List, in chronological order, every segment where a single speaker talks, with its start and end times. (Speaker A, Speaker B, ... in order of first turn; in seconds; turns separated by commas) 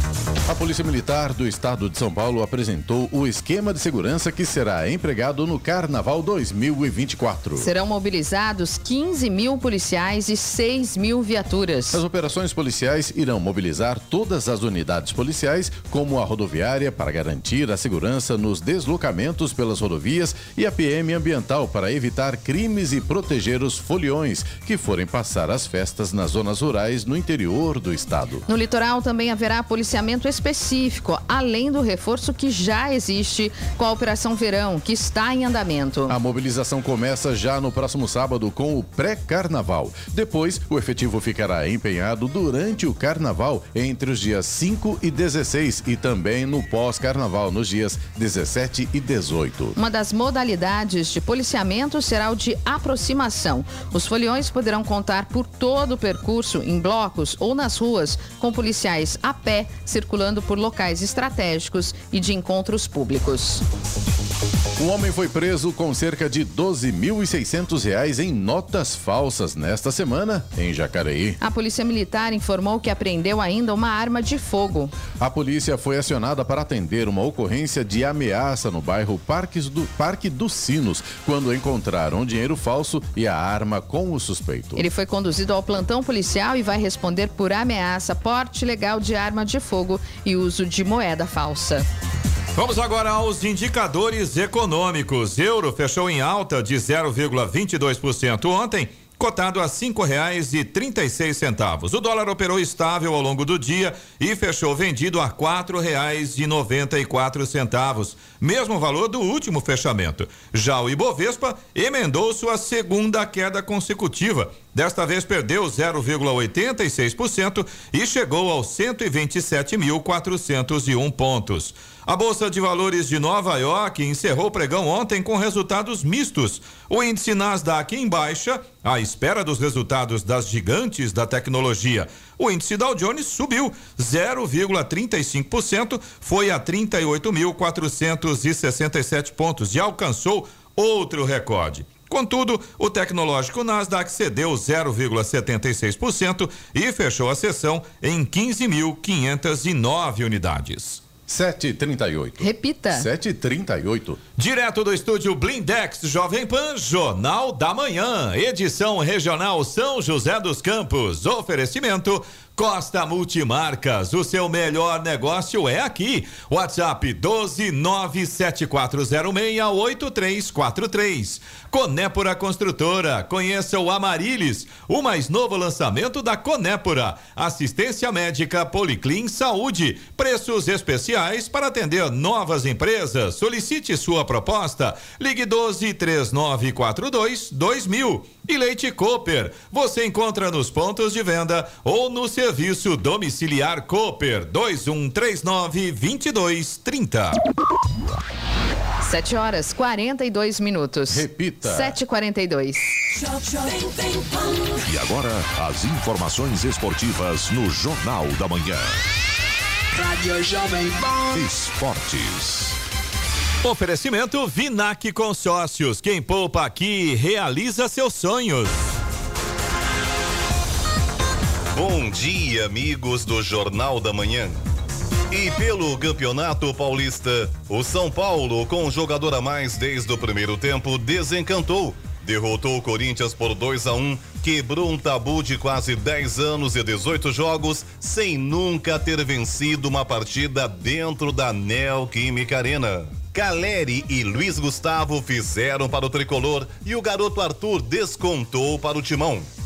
Speaker A: 0.5-7.7, Speaker B: 7.6-12.0, Speaker A: 11.9-28.4, Speaker B: 28.5-36.1, Speaker A: 36.1-49.8, Speaker B: 49.8-63.6, Speaker A: 64.8-71.4, Speaker B: 71.4-74.9, Speaker A: 75.2-84.8, Speaker B: 84.8-91.8, Speaker C: 92.5-151.0, Speaker A: 151.3-154.2, Speaker B: 152.4-153.1, Speaker C: 154.4-197.4, Speaker B: 199.0-202.9, Speaker A: 201.1-201.9, Speaker D: 203.3-204.7, Speaker E: 204.8-209.0, Speaker D: 209.9-211.4, Speaker E: 211.3-212.8, Speaker C: 213.6-218.9, Speaker F: 221.7-224.6, Speaker F: 225.3-249.5